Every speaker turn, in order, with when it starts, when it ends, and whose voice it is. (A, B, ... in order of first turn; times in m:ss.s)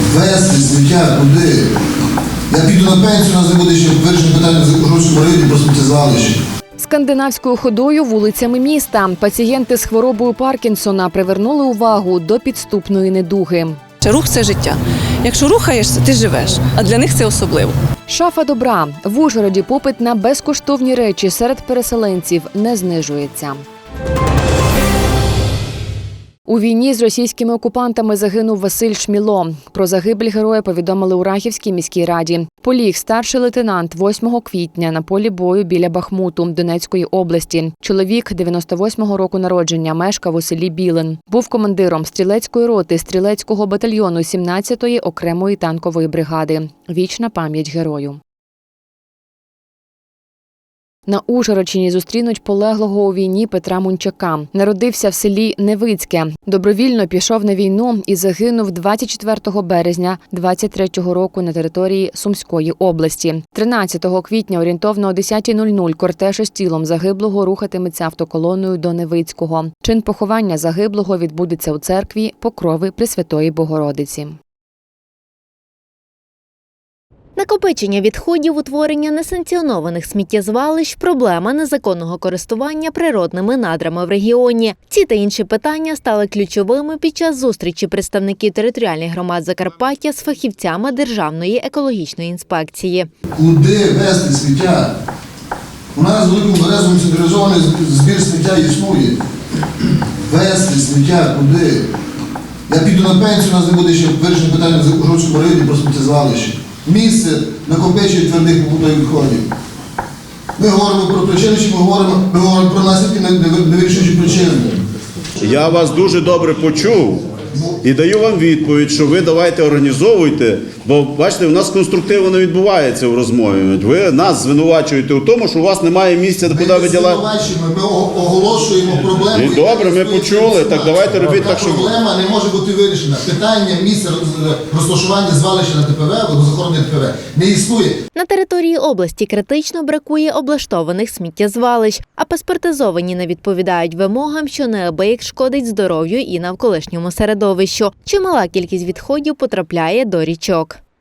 0:00.1-0:01.6 A
0:02.5-0:06.4 A
0:06.8-0:13.8 B
0:14.0-0:17.8 C
0:18.1-0:23.6 B
0:26.5-0:48.2 B
0:51.1-1:14.4 B
1:17.4-1:33.1 D
1:33.4-1:34.9 A
1:35.9-1:39.2 A
1:40.2-1:41.8 A
1:42.7-1:49.5 A
1:50.6-1:54.7 A
1:55.4-1:57.2 E
1:57.8-2:07.2 E
2:06.5-2:17.9 A
2:09.3-2:11.9 E
2:18.1-2:30.8 D